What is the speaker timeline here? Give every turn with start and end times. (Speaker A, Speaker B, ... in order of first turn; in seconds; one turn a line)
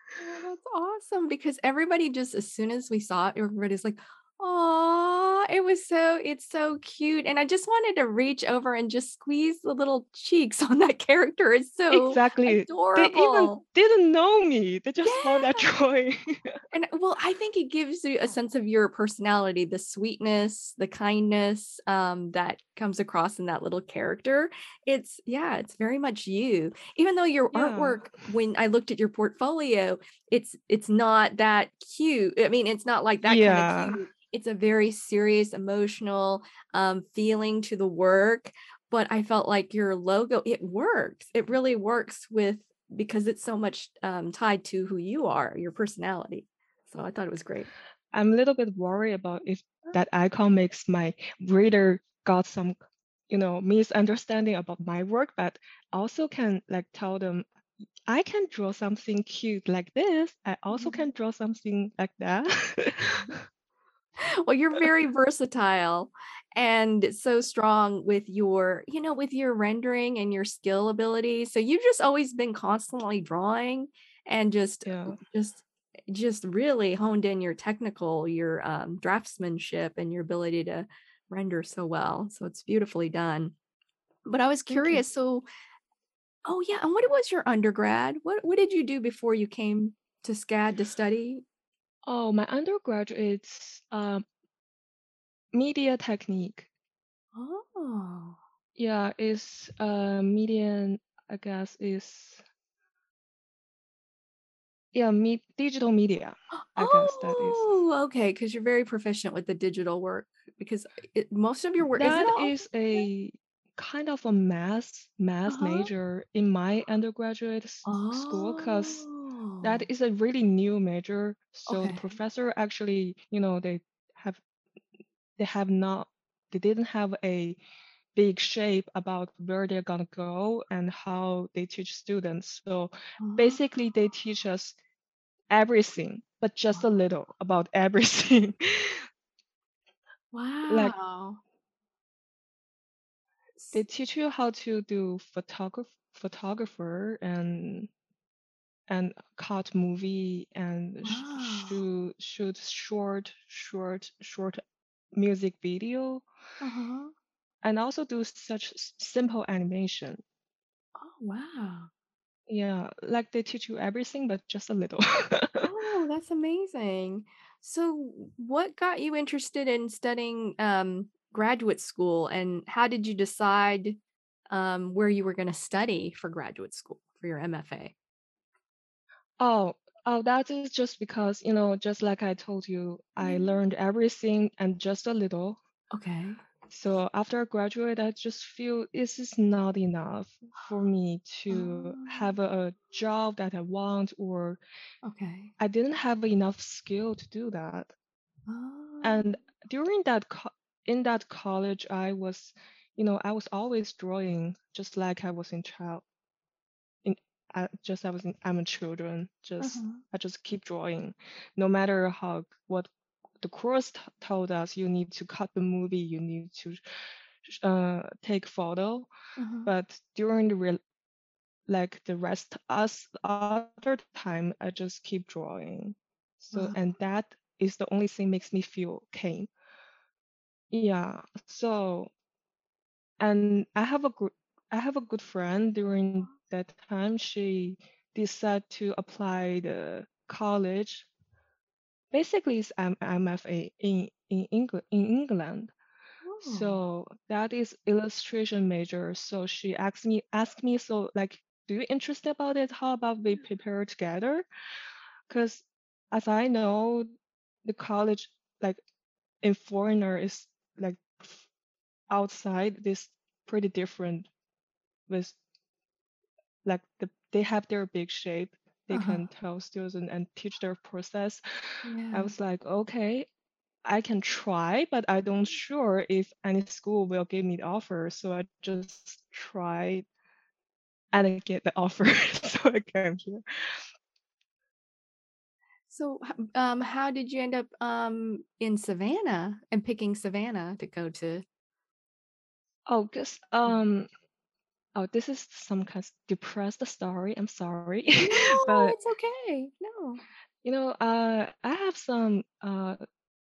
Speaker A: 0.2-13.6
Speaker B: 11.9-16.5
Speaker A: 15.0-15.7
Speaker A: 16.7-47.7
Speaker B: 27.5-28.1
Speaker B: 33.2-34.0
Speaker B: 48.1-52.7
Speaker B: 53.3-57.5
Speaker B: 58.1-63.4
Speaker A: 60.7-61.0
Speaker A: 64.4-83.5
Speaker B: 74.8-75.2
Speaker A: 84.2-85.5
Speaker B: 84.7-85.0
Speaker A: 86.5-91.4
Speaker B: 92.1-94.2
Speaker B: 95.5-96.7
Speaker A: 97.3-98.4
Speaker B: 98.8-102.4
Speaker B: 104.9-107.6
Speaker A: 106.8-113.0
Speaker B: 112.0-119.0
Speaker A: 115.5-115.9
Speaker A: 117.8-119.8
Speaker B: 119.6-124.4
Speaker A: 121.7-122.1
Speaker B: 125.4-127.6
Speaker B: 128.2-134.8
Speaker A: 133.2-133.6
Speaker B: 135.5-139.1
Speaker A: 140.3-141.4
Speaker B: 140.7-140.9
Speaker B: 143.7-147.9
Speaker B: 148.9-154.6
Speaker A: 151.0-151.8
Speaker B: 155.1-156.2
Speaker A: 156.6-157.1
Speaker B: 157.6-160.2
Speaker A: 161.0-161.9
Speaker B: 162.5-165.7
Speaker A: 165.6-174.0
Speaker A: 174.5-177.9
Speaker B: 179.4-185.6
Speaker A: 183.2-183.6
Speaker A: 185.9-186.4
Speaker B: 186.7-194.6
Speaker A: 191.5-192.3
Speaker A: 195.0-195.5
Speaker B: 195.6-197.9
Speaker A: 198.5-199.3
Speaker B: 199.0-206.0
Speaker B: 207.0-212.9
Speaker A: 209.6-210.0
Speaker B: 213.4-216.8
Speaker B: 217.4-219.1
Speaker A: 219.4-219.7
Speaker B: 219.7-220.8
Speaker B: 221.7-229.5
Speaker A: 226.5-226.8
Speaker B: 230.7-232.1
Speaker B: 233.2-241.1
Speaker B: 242.1-245.7
Speaker A: 246.2-246.8
Speaker B: 246.4-254.4
Speaker B: 255.3-257.1
Speaker B: 257.6-258.8
Speaker B: 259.4-261.4
Speaker B: 262.1-264.3
Speaker B: 265.1-265.4
Speaker B: 266.6-273.3
Speaker A: 268.9-269.2
Speaker A: 271.8-272.3
Speaker B: 273.8-280.1
Speaker B: 281.1-283.8
Speaker A: 285.9-291.4
Speaker B: 292.9-294.1
Speaker B: 294.9-298.9
Speaker A: 298.2-300.2
Speaker B: 300.6-303.0